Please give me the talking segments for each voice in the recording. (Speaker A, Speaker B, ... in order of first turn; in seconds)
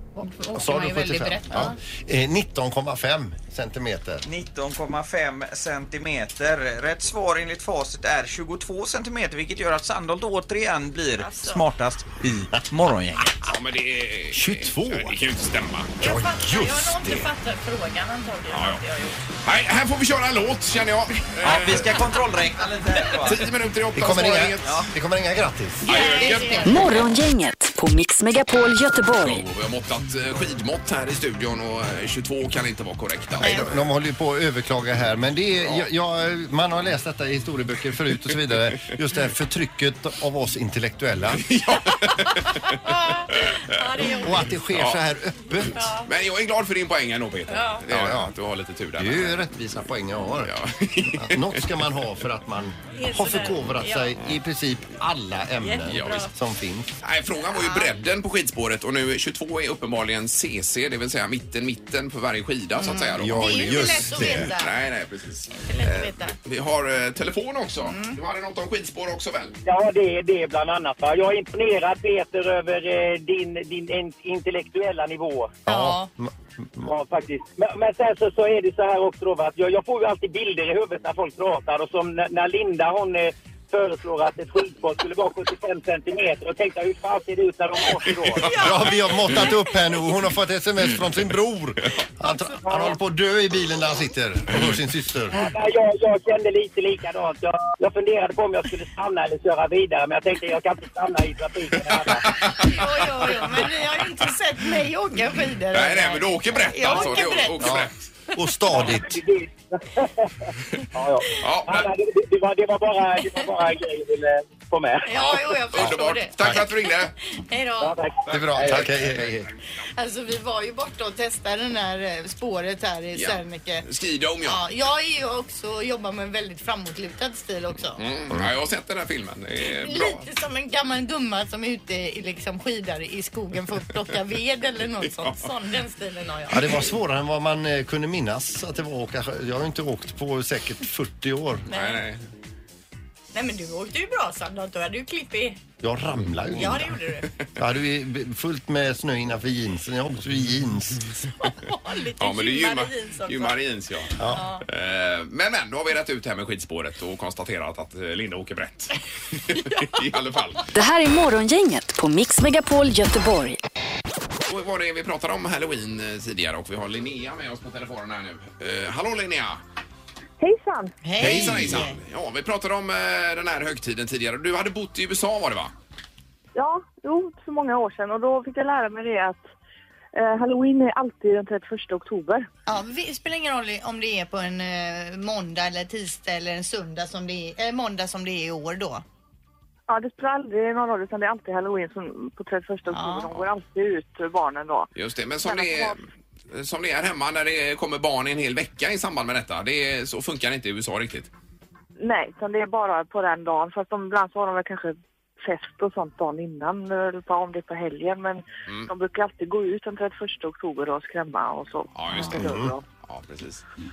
Speaker A: 0.2-1.7, 26.1-26.6
Speaker B: 0.5-4.2, 14.3-15.2, 16.0-17.3, 23.9-25.9, 33.4-41.4, 44.0-45.9, 47.9-48.3, 49.0-50.5, 51.1-56.9, 63.1-64.5, 75.7-76.8, 88.5-95.4, 107.6-109.1, 115.8-116.6, 118.3-119.5, 136.5-141.7, 145.8-146.9, 147.6-151.0, 154.2-154.4, 212.3-212.7
Speaker C: 4.2-13.4, 21.4-23.5, 24.6-24.9
Speaker D: 11.2-11.6, 16.0-19.2, 25.9-26.9, 33.4-33.7, 42.8-44.4, 45.8-46.0, 47.5-47.8, 53.0-54.0, 55.6-56.2, 57.5-57.9, 62.8-64.7, 65.5-66.3, 67.8-68.2, 75.7-76.1, 88.4-89.5, 102.4-107.7, 115.0-118.0, 119.9-123.8, 124.4-128.0, 129.6-136.9, 141.7-142.0, 143.3-145.6, 146.5-147.3, 151.4-153.6, 154.2-154.6, 171.0-172.0, 182.7-189.0, 192.9-193.3
Speaker E: 13.4-16.0, 18.5-18.8, 19.4-22.0, 23.1-24.9, 25.8-27.1, 29.2-33.8, 41.3-44.1, 44.7-45.0, 45.6-49.4, 50.4-51.9, 55.9-56.3, 57.0-69.5, 101.9-103.7, 105.7-107.9, 110.8-111.9, 115.1-117.1, 123.1-124.6, 128.0-130.3, 141.7-142.2, 152.2-160.6, 164.5-169.6, 171.2-175.7, 194.9-201.3, 211.9-212.5, 213.1-213.6
Speaker F: 26.6-29.4, 160.7-163.6
Speaker G: 69.6-75.6, 76.8-88.6, 95.3-102.5, 108.7-115.1, 117.8-118.9
Speaker H: 170.4-170.9, 176.5-179.5, 180.1-182.5, 189.9-194.9, 195.4-196.0, 202.0-212.8